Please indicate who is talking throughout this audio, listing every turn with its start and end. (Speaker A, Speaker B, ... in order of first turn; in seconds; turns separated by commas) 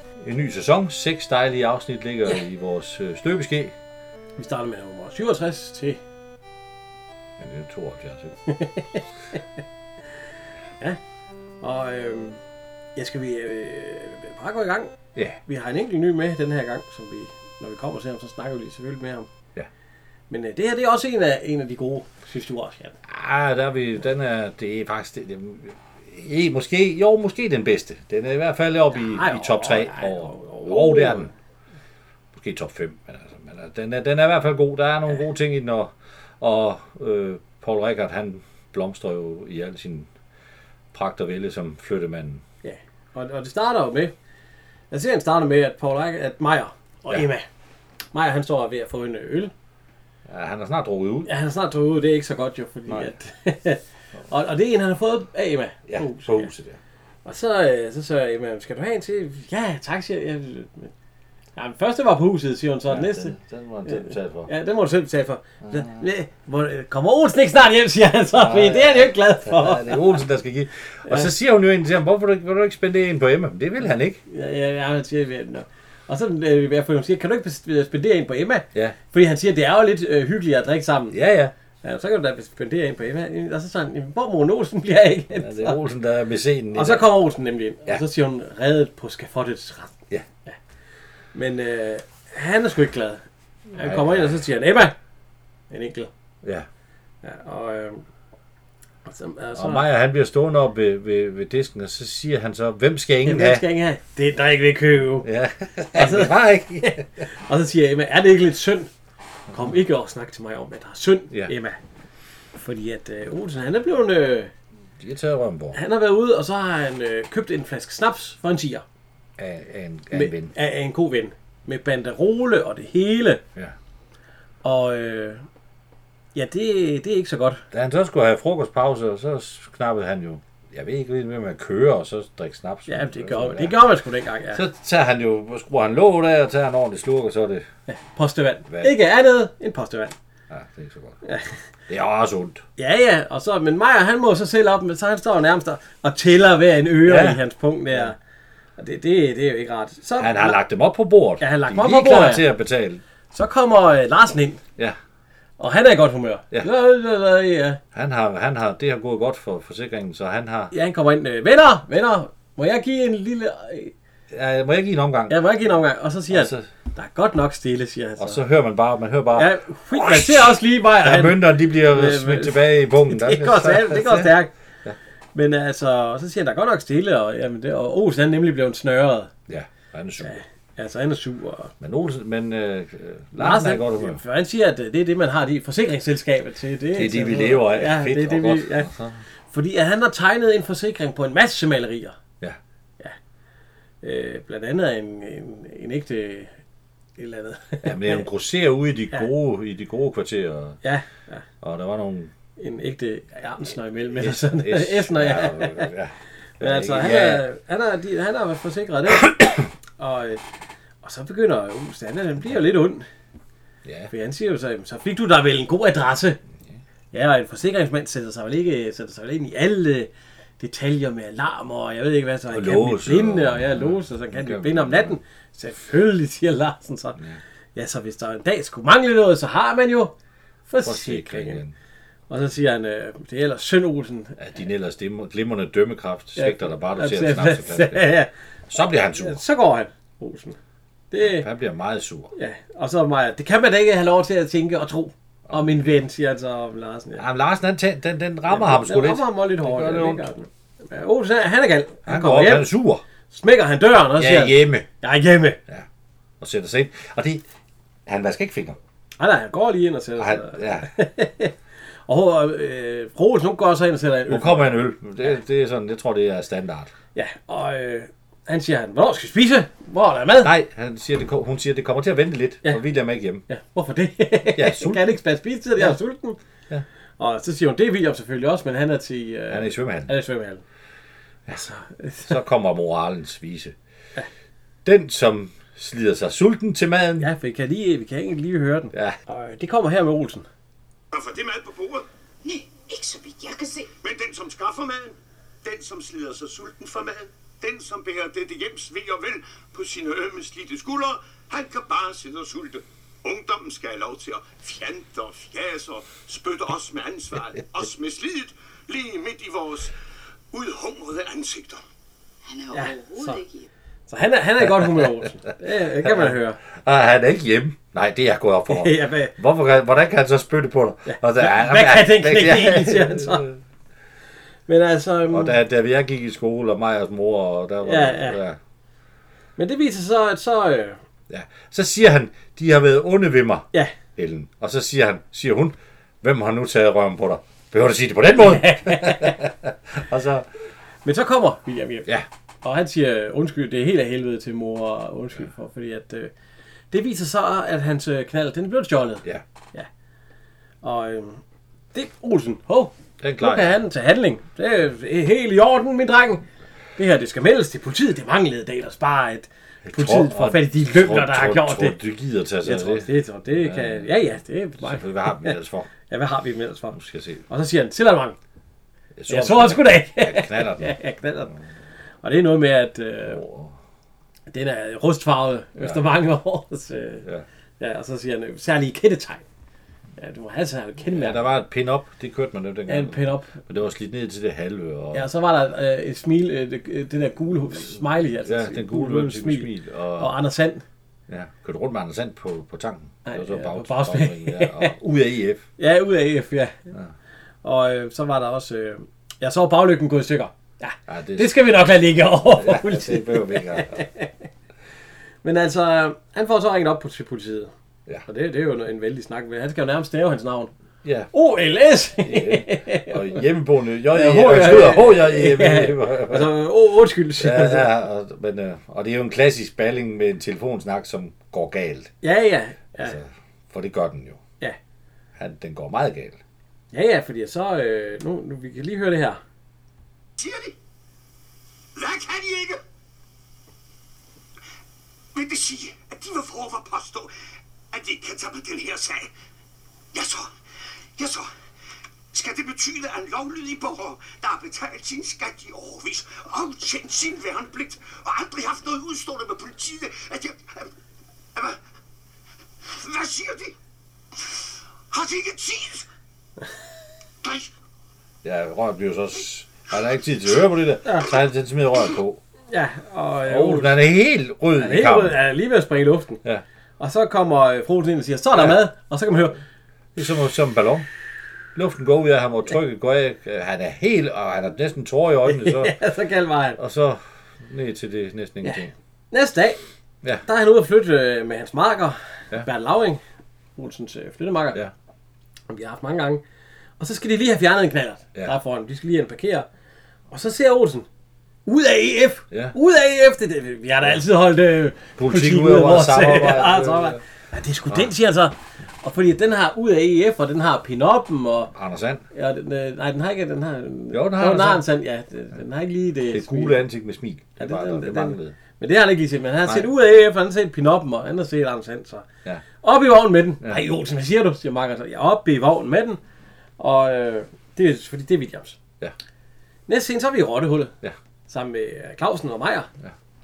Speaker A: 0.2-3.7, Speaker B: 4.4-6.0, Speaker A: 7.4-8.4, Speaker B: 8.5-9.0, Speaker B: 11.6-12.4, Speaker B: 13.0-14.9, Speaker B: 15.5-19.3, Speaker B: 20.3-23.0, Speaker A: 23.1-31.3, Speaker B: 28.9-31.3, Speaker A: 32.3-40.1, Speaker A: 40.9-42.4, Speaker B: 42.6-44.1, Speaker B: 44.9-47.5, Speaker B: 48.1-49.5, Speaker A: 50.3-51.3, Speaker B: 51.3-56.5, Speaker A: 52.9-53.1, Speaker A: 55.9-56.8, Speaker B: 57.2-60.9, Speaker B: 61.6-70.2, Speaker A: 62.9-64.5, Speaker A: 65.6-66.0, Speaker A: 68.3-74.2, Speaker B: 74.3-81.2, Speaker A: 81.1-81.5, Speaker B: 81.8-85.8, Speaker A: 85.3-87.1, Speaker B: 86.7-89.9, Speaker B: 91.3-93.2, Speaker A: 93.7-94.4, Speaker B: 93.8-95.0, Speaker B: 95.7-96.1, Speaker B: 97.2-98.0, Speaker B: 99.0-99.9, Speaker A: 99.5-103.6, Speaker B: 103.2-105.3, Speaker A: 105.2-107.0, Speaker B: 105.9-108.9, Speaker B: 109.5-111.8, Speaker B: 112.5-114.5, Speaker A: 115.0-115.8, Speaker B: 115.7-118.8, Speaker A: 119.4-120.5, Speaker B: 120.1-123.4, Speaker B: 124.6-125.5, Speaker B: 126.3-127.6, Speaker A: 127.7-133.8, Speaker B: 132.9-134.6, Speaker A: 134.5-137.7, Speaker B: 137.9-140.2, Speaker A: 138.7-138.9, Speaker A: 140.5-141.2, Speaker B: 141.2-141.6, Speaker A: 141.9-142.6, Speaker B: 142.8-148.2, Speaker A: 147.0-147.4, Speaker B: 148.8-150.6, Speaker A: 150.2-153.0, Speaker B: 151.4-152.5, Speaker B: 153.3-154.6, Speaker B: 155.6-157.8, Speaker A: 157.9-160.7, Speaker B: 160.7-163.9, Speaker A: 164.3-165.7, Speaker B: 165.3-168.4, Speaker A: 166.3-166.7, Speaker A: 168.2-175.0, Speaker B: 169.3-174.5, Speaker B: 175.3-179.3, Speaker A: 179.5-180.4, Speaker B: 180.2-181.7, Speaker A: 181.8-184.2, Speaker B: 183.4-188.9, Speaker A: 186.9-189.2, Speaker B: 189.5-192.2, Speaker B: 194.0-196.5, Speaker B: 197.2-198.2, Speaker A: 197.8-200.8, Speaker B: 200.8-201.4, Speaker A: 201.6-202.3, Speaker B: 202.6-205.9, Speaker A: 204.2-207.4, Speaker B: 206.6-209.3, Speaker B: 210.0-210.4, Speaker B: 211.0-213.1, Speaker A: 213.8-214.1, Speaker B: 214.1-216.4, Speaker B: 217.1-227.2, Speaker A: 222.5-225.2, Speaker B: 227.8-230.1, Speaker B: 230.7-231.6, Speaker A: 230.8-231.7, Speaker B: 232.3-234.4, Speaker A: 234.4-238.0, Speaker B: 236.4-238.3, Speaker A: 238.7-239.4, Speaker B: 239.2-240.6, Speaker B: 241.1-241.5, Speaker A: 241.2-242.3, Speaker B: 242.3-247.2, Speaker A: 245.5-245.8, Speaker A: 247.2-250.3, Speaker B: 248.5-252.7, Speaker A: 252.1-253.0, Speaker B: 253.3-255.6, Speaker A: 254.2-254.9, Speaker A: 256.4-257.4, Speaker A: 258.1-258.8, Speaker B: 259.2-261.6, Speaker A: 260.2-260.9, Speaker B: 262.1-264.8, Speaker A: 264.3-266.9, Speaker B: 267.1-270.5, Speaker A: 270.4-273.4, Speaker B: 273.5-276.4, Speaker A: 274.6-275.1, Speaker B: 277.2-280.6, Speaker A: 279.5-280.1, Speaker B: 281.6-282.4, Speaker A: 282.2-283.8, Speaker A: 284.8-287.3, Speaker B: 287.2-290.5, Speaker A: 288.9-289.2, Speaker C: 291.1-292.1, Speaker D: 292.4-293.9, Speaker C: 294.0-309.9, Speaker C: 310.5-311.8, Speaker D: 312.4-313.7, Speaker B: 312.7-313.4, Speaker B: 314.1-316.6, Speaker A: 314.6-315.2, Speaker A: 316.0-323.6, Speaker B: 318.7-319.4, Speaker B: 321.1-323.5, Speaker B: 324.7-325.6, Speaker A: 325.3-328.6, Speaker B: 327.8-328.4, Speaker B: 329.6-331.0, Speaker A: 331.3-340.5, Speaker B: 338.4-339.4, Speaker B: 341.1-342.1, Speaker B: 342.6-346.3, Speaker B: 346.9-349.9, Speaker B: 350.8-351.4, Speaker B: 351.9-356.4, Speaker A: 353.2-353.8, Speaker B: 357.0-362.0, Speaker A: 359.9-365.9, Speaker B: 362.6-365.6, Speaker B: 366.1-367.0, Speaker A: 366.9-367.4, Speaker B: 367.5-368.4, Speaker A: 369.2-371.0, Speaker B: 369.3-371.5, Speaker B: 372.2-373.4, Speaker A: 373.2-373.7, Speaker B: 374.5-377.2, Speaker A: 375.8-376.1, Speaker B: 377.8-379.4, Speaker B: 380.2-381.4, Speaker A: 381.1-385.3, Speaker B: 382.9-383.6, Speaker B: 385.1-390.8, Speaker A: 387.8-390.4, Speaker A: 391.3-395.6, Speaker B: 393.2-394.9, Speaker B: 395.8-396.9, Speaker B: 397.6-404.3, Speaker A: 401.1-401.6, Speaker A: 402.5-403.9, Speaker B: 405.4-407.7, Speaker B: 408.3-410.7, Speaker A: 411.0-411.3, Speaker B: 411.3-413.4, Speaker A: 412.2-416.5, Speaker B: 414.1-417.9, Speaker A: 417.4-422.1, Speaker B: 422.2-423.2, Speaker A: 423.0-424.4, Speaker A: 425.4-426.4, Speaker B: 426.9-429.4, Speaker C: 430.4-430.7, Speaker C: 432.0-432.8, Speaker C: 435.3-437.3, Speaker C: 437.9-439.3, Speaker C: 440.1-440.5, Speaker C: 441.2-441.5, Speaker C: 442.3-450.9, Speaker C: 452.9-453.7, Speaker C: 455.1-456.1, Speaker C: 457.4-457.7, Speaker A: 458.4-462.4, Speaker B: 461.1-461.3, Speaker B: 462.7-464.0, Speaker A: 463.5-465.4, Speaker B: 464.8-466.4, Speaker B: 467.0-469.6, Speaker A: 468.5-468.8, Speaker A: 470.2-471.1, Speaker A: 471.8-476.0, Speaker B: 475.5-476.8, Speaker A: 476.8-478.9, Speaker B: 478.6-479.8, Speaker B: 480.4-483.2, Speaker B: 483.8-484.8, Speaker B: 485.7-486.4, Speaker B: 487.0-489.7, Speaker B: 490.3-491.1, Speaker B: 491.7-501.7, Speaker A: 492.5-492.8, Speaker A: 495.2-497.2, Speaker A: 501.7-502.2, Speaker B: 502.3-506.8, Speaker A: 504.1-504.9, Speaker A: 506.3-508.6, Speaker B: 507.6-512.3, Speaker B: 512.8-516.2, Speaker B: 516.8-518.8, Speaker B: 519.9-521.0, Speaker B: 521.5-522.9